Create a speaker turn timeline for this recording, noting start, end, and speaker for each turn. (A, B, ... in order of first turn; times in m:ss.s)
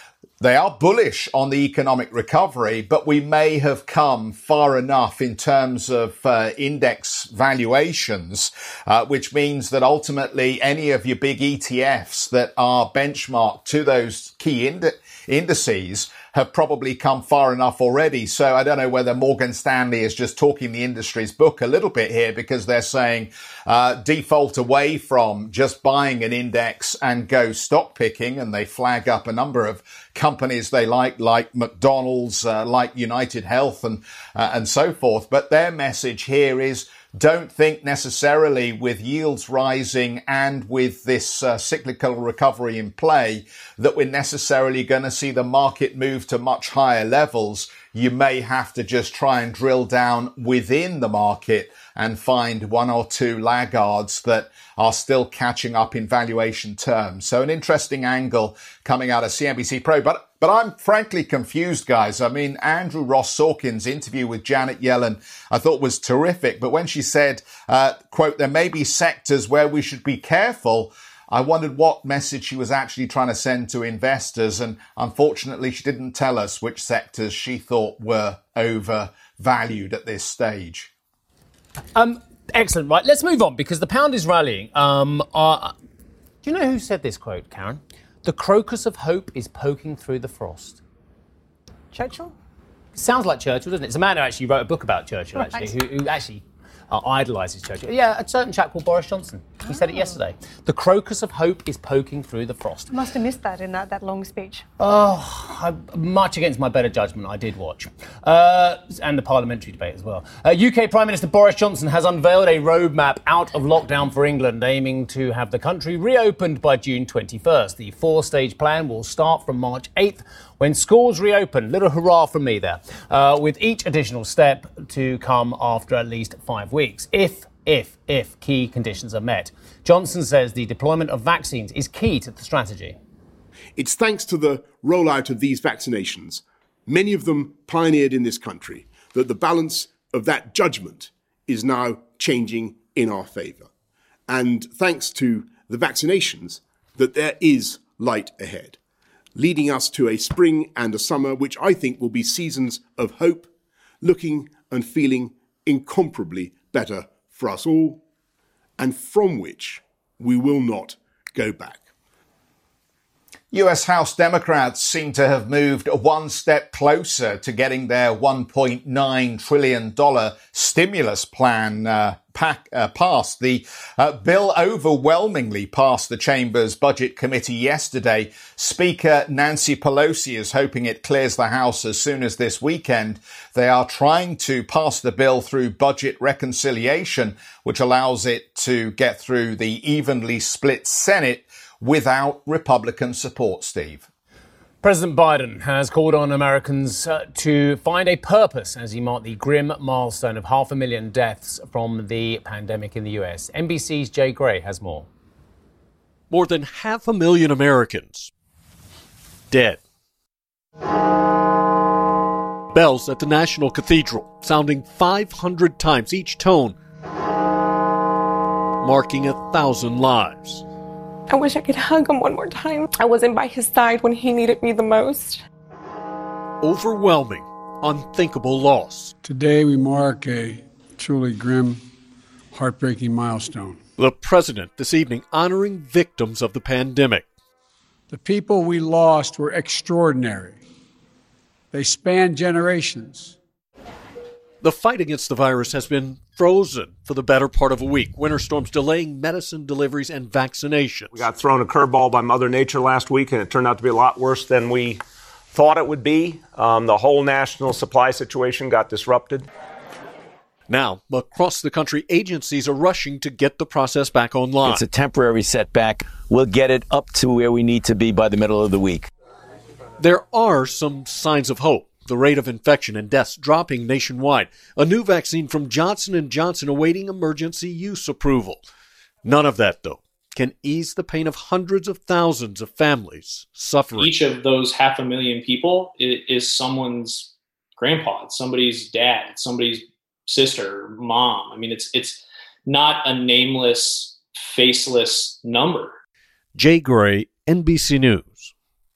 0:00.4-1:20.9 A
1:21.9-1:25.7 B
1:26.4-1:30.8 B
1:31.9-1:32.3 C
1:33.0-1:42.9 B
1:35.4-1:35.7 C
1:39.7-1:40.2 C
1:42.9-1:44.6 C
1:44.8-2:13.0 B
2:13.8-2:23.7 D
2:24.3-2:28.8 D
2:29.4-2:33.5 D
2:34.0-2:38.0 D
2:38.8-2:41.8 D
2:43.5-3:14.1 A
3:14.8-3:25.1 B
3:26.3-3:28.3 E
3:29.5-3:29.8 E
3:32.7-3:36.8 E
3:38.8-3:40.6 E
3:41.3-3:45.4 F
3:46.6-3:49.2 E
3:49.2-3:51.8 G
3:52.5-3:53.8 G
3:54.0-3:57.3 E
3:58.1-4:00.6 G
4:01.7-4:03.4 G
4:04.6-4:11.2 E
4:11.1-4:19.5 H
4:20.7-4:24.8 E
4:24.6-4:29.1 I
4:30.0-4:38.7 E
4:39.2-4:44.2 E
4:44.0-4:56.0 J
4:56.6-4:58.5 E